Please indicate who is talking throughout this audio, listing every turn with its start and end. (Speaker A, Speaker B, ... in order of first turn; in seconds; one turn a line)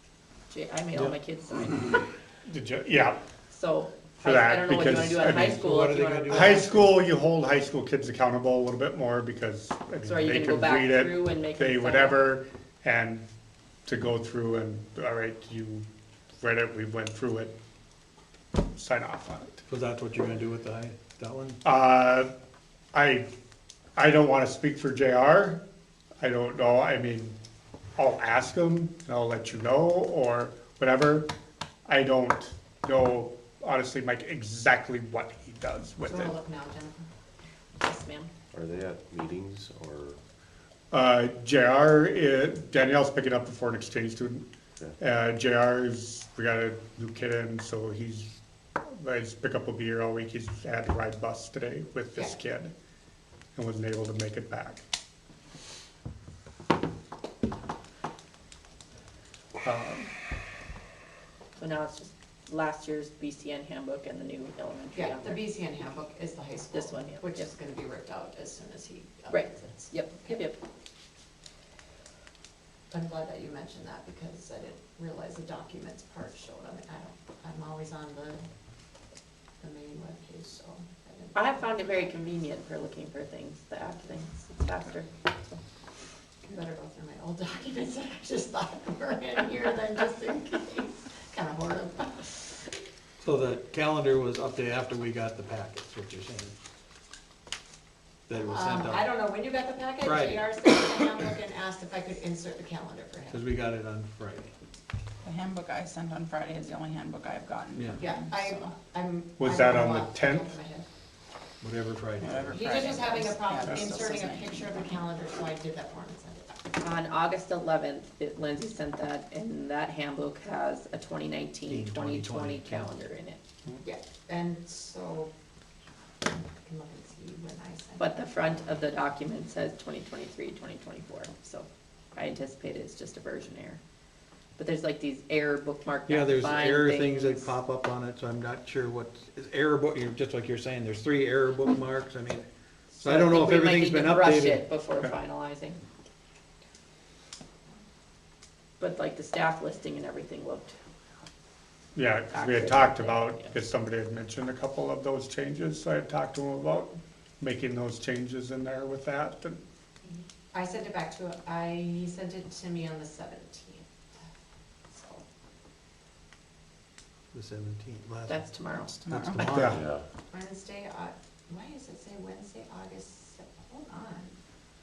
Speaker A: 0.5-2.0
Speaker B: 2.5-3.2
Speaker A: 3.5-6.8
Speaker B: 4.2-5.6
Speaker C: 5.3-7.0
Speaker B: 6.3-13.3
Speaker A: 10.0-12.3
Speaker B: 13.9-15.9
Speaker B: 16.4-17.5
Speaker B: 18.8-19.6
Speaker C: 19.7-21.6
Speaker B: 21.6-22.3
Speaker B: 22.9-23.3
Speaker B: 24.0-25.6
Speaker B: 26.2-27.4
Speaker B: 28.0-31.3
Speaker B: 31.9-36.4
Speaker D: 36.0-37.0
Speaker A: 37.8-38.3
Speaker E: 38.5-40.2
Speaker B: 40.9-44.5
Speaker B: 45.0-52.7
Speaker B: 53.6-54.8
Speaker B: 59.6-60.1
Speaker A: 61.6-65.5
Speaker D: 65.0-70.4
Speaker A: 66.7-67.5
Speaker A: 69.3-70.6
Speaker D: 72.9-78.4
Speaker D: 79.6-82.1
Speaker A: 81.3-85.1
Speaker D: 86.5-92.4
Speaker C: 93.2-96.6
Speaker C: 98.3-99.1
Speaker D: 98.4-103.4
Speaker C: 100.0-100.5
Speaker C: 103.3-104.5
Speaker F: 105.2-108.8
Speaker C: 107.8-108.1
Speaker D: 108.0-110.9
Speaker B: 109.4-110.6
Speaker C: 111.6-112.8
Speaker F: 112.2-114.8
Speaker D: 112.5-116.6
Speaker A: 116.8-123.4
Speaker C: 121.7-122.9
Speaker D: 123.8-125.3
Speaker D: 126.3-128.1
Speaker A: 128.0-133.8
Speaker A: 134.6-137.5
Speaker C: 136.1-144.7
Speaker A: 143.0-145.8
Speaker A: 148.8-150.8
Speaker B: 151.9-159.6
Speaker A: 152.3-153.5
Speaker D: 160.5-163.8
Speaker D: 164.9-165.2
Speaker C: 167.3-168.5
Speaker A: 168.3-169.0
Speaker F: 169.1-169.5
Speaker C: 169.1-169.8
Speaker B: 169.5-169.8
Speaker E: 169.7-170.1
Speaker D: 170.3-174.4